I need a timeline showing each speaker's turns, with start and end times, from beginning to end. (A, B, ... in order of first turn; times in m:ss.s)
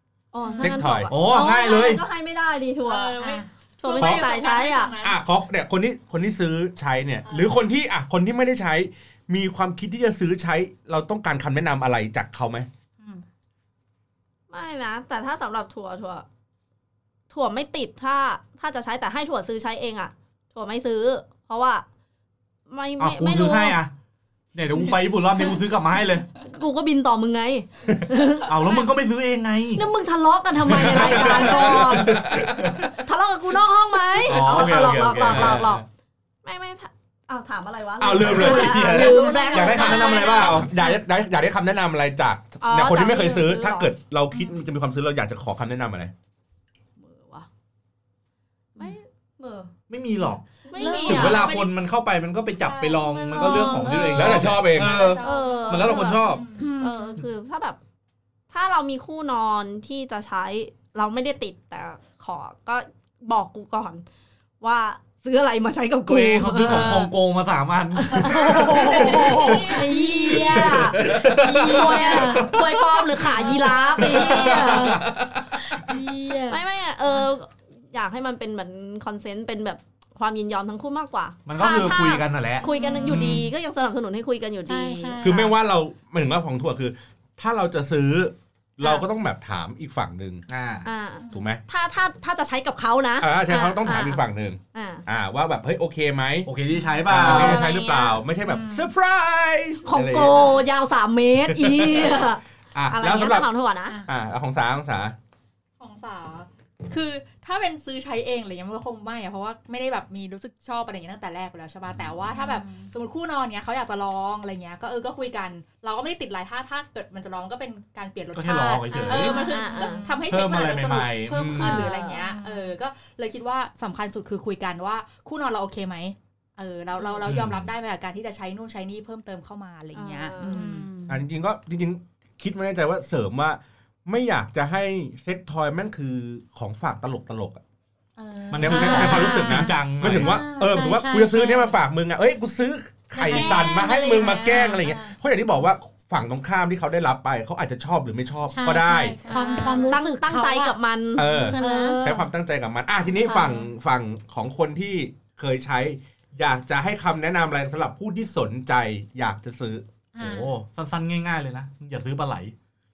0:00.3-0:05.0 A
0:00.5-0:00.7 B
0:00.6-0:01.1 C
0:01.1-0:02.0 D
0:02.9-0:05.2 E
0:03.2-0:03.5 B
0:04.0-0:04.3 C
0:05.0-0:12.7 C
0:07.3-0:07.6 E
0:14.5-0:16.3 A
0:17.3-0:21.8 A
0:22.7-0:23.8 A
0:23.0-0:23.9 D
0:24.5-0:26.3 D
0:24.9-0:25.5 A
0:26.4-0:28.8 A
0:28.4-0:29.9 D
0:29.8-0:32.2 A
0:30.7-0:32.7 D
0:30.8-0:32.9 C
0:33.0-0:35.9 A
0:34.2-0:35.8 D
0:34.4-0:35.8 C
0:36.4-0:40.7 A
0:38.0-0:39.1 C
0:38.2-0:40.7 D
0:38.8-0:40.4 E
0:39.7-0:46.1 C
0:42.6-0:43.9 A
0:47.0-0:47.5 A
0:48.8-0:49.7 A
0:49.9-0:50.4 D
0:50.7-0:51.5 A
0:50.8-0:51.5 B
0:50.8-0:51.8 E
0:51.0-0:56.5 D
0:52.6-0:54.3 B
0:52.9-0:54.5 A
0:53.7-0:56.7 E
0:54.1-0:55.2 C
0:55.2-0:56.3 A
0:56.6-0:57.2 B
0:56.8-0:57.8 A
0:58.5-1:04.0 A
1:04.6-1:07.1 A
1:06.1-1:13.3 D
1:08.0-1:15.0 A
1:08.2-1:10.6 B
1:09.3-1:09.6 E
1:10.9-1:11.7 C
1:11.3-1:12.5 B
1:14.0-1:15.1 D
1:14.0-1:16.6 B
1:16.5-1:25.2 A
1:21.5-1:22.7 D
1:22.6-1:23.4 B
1:23.1-1:23.4 C
1:24.7-1:25.6 B
1:25.2-1:30.4 C
1:28.8-1:29.1 A
1:30.5-1:30.9 D
1:30.8-1:34.2 A
1:31.3-1:31.6 C
1:33.2-1:36.5 C
1:34.7-1:35.0 A
1:36.4-1:37.6 D
1:37.1-1:40.6 C
1:37.1-1:38.2 A
1:38.4-1:38.9 B
1:39.8-1:44.0 A
1:41.7-1:42.2 C
1:42.8-1:43.5 C
1:44.1-1:45.2 C
1:45.8-2:10.9 E
1:52.3-1:52.9 B
1:58.4-1:59.4 D
1:59.0-2:00.0 A
1:59.1-2:00.3 B
2:00.3-2:01.9 D
2:01.5-2:02.3 A
2:02.3-2:02.8 B
2:07.0-2:07.3 A
2:07.2-2:07.7 D
2:10.0-2:10.6 A
2:10.4-2:11.2 B
2:11.1-2:17.6 C
2:18.2-2:19.3 E
2:18.5-2:20.3 D
2:18.6-2:29.2 C
2:18.6-2:21.8 B
2:23.2-2:25.0 B
2:23.2-2:24.9 E
2:28.5-2:32.3 B
2:29.2-2:30.0 E
2:29.3-2:32.0 A
2:31.2-2:39.8 C
2:33.3-2:33.7 B
2:40.1-2:40.5 B
2:40.2-2:42.5 D